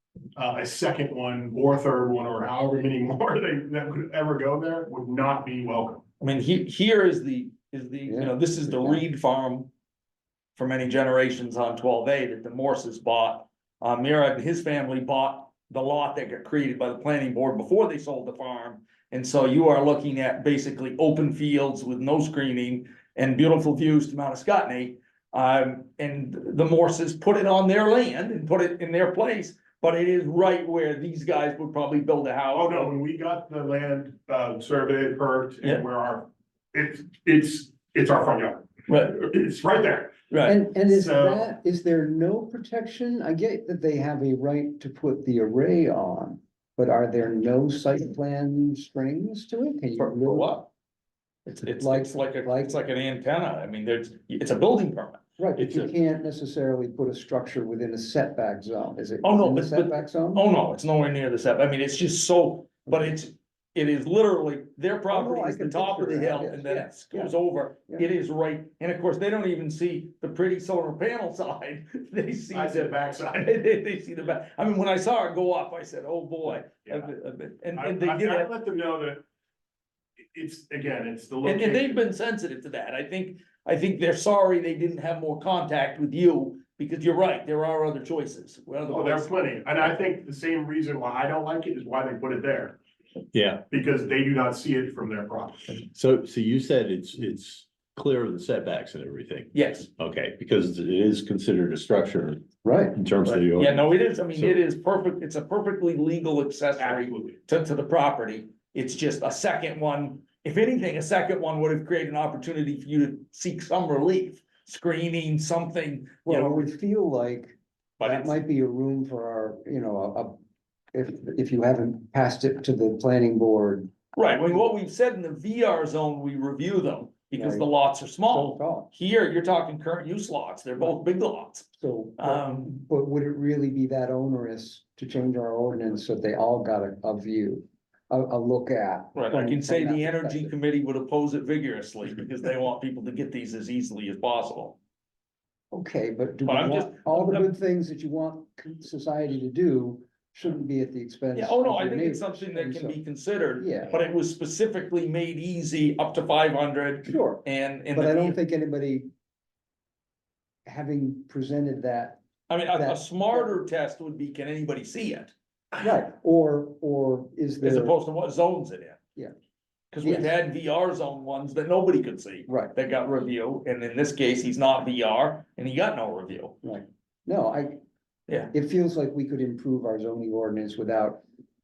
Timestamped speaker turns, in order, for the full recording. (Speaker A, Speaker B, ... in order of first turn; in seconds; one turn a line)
Speaker A: 0.3-6.0
Speaker B: 6.2-9.7
Speaker C: 8.1-9.0
Speaker B: 10.6-32.9
Speaker A: 32.5-40.1
Speaker B: 38.9-39.2
Speaker B: 40.3-40.6
Speaker C: 40.4-50.6
Speaker A: 40.8-41.5
Speaker B: 50.0-50.7
Speaker B: 51.5-55.9
Speaker C: 51.6-52.8
Speaker C: 55.4-60.5
Speaker B: 59.2-78.5
Speaker C: 62.9-63.1
Speaker C: 65.1-67.3
Speaker A: 72.5-73.6
Speaker A: 76.8-77.1
Speaker A: 77.7-79.2
Speaker A: 80.3-82.0
Speaker B: 81.4-89.3
Speaker A: 88.8-92.8
Speaker D: 93.3-93.6
Speaker A: 93.7-95.8
Speaker D: 95.9-104.6
Speaker B: 99.5-99.9
Speaker C: 102.6-102.9
Speaker B: 103.2-116.6
Speaker A: 106.8-107.4
Speaker C: 116.2-120.4
Speaker B: 118.0-118.4
Speaker C: 120.9-124.6
Speaker B: 124.2-131.7
Speaker C: 127.3-127.7
Speaker C: 128.2-128.9
Speaker C: 131.8-140.5
Speaker B: 132.2-132.8
Speaker B: 139.1-144.8
Speaker C: 145.7-153.0
Speaker B: 146.4-147.5
Speaker B: 151.3-158.4
Speaker C: 153.6-153.9
Speaker C: 157.1-157.4
Speaker C: 157.9-159.1
Speaker C: 160.7-163.6
Speaker B: 162.5-165.3
Speaker C: 165.8-167.9
Speaker B: 167.6-169.0
Speaker B: 169.9-176.6
Speaker C: 170.0-170.3
Speaker C: 172.5-172.7
Speaker C: 176.6-177.8
Speaker C: 178.5-181.2